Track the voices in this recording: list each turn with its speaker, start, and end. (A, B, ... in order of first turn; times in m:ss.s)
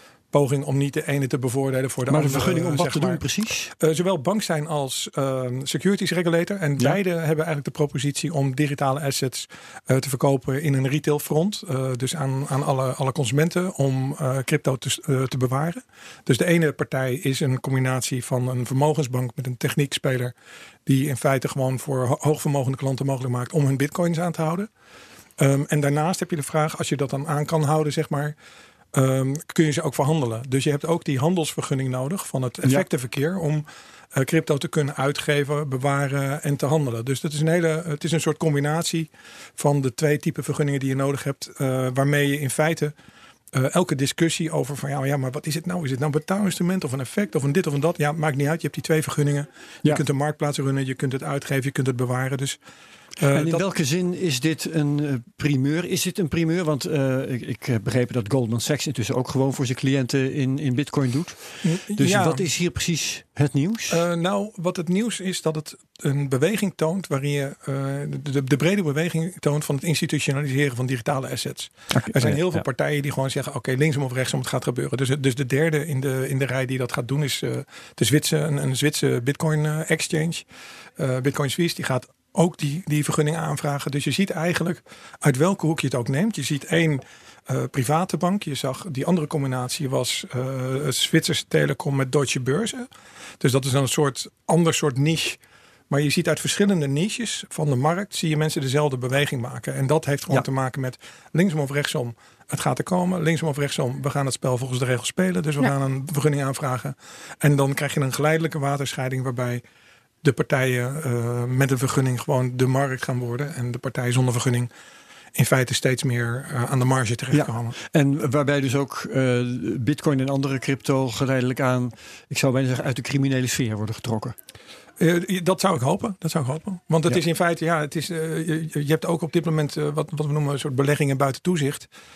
0:00.3-0:20.3 A
0:02.1-0:03.7 B
0:20.9-0:24.7 A
0:25.4-0:28.4 A
0:28.9-0:43.0 A
0:43.5-0:52.6 A
0:53.2-0:53.6 A
0:53.3-1:04.0 B
1:01.6-1:02.4 A
1:03.9-1:20.5 A
1:11.9-1:12.6 B
1:21.0-1:49.6 A
1:50.2-1:54.7 A
1:55.4-1:57.8 A
1:57.3-2:04.4 B
2:05.0-2:11.9 A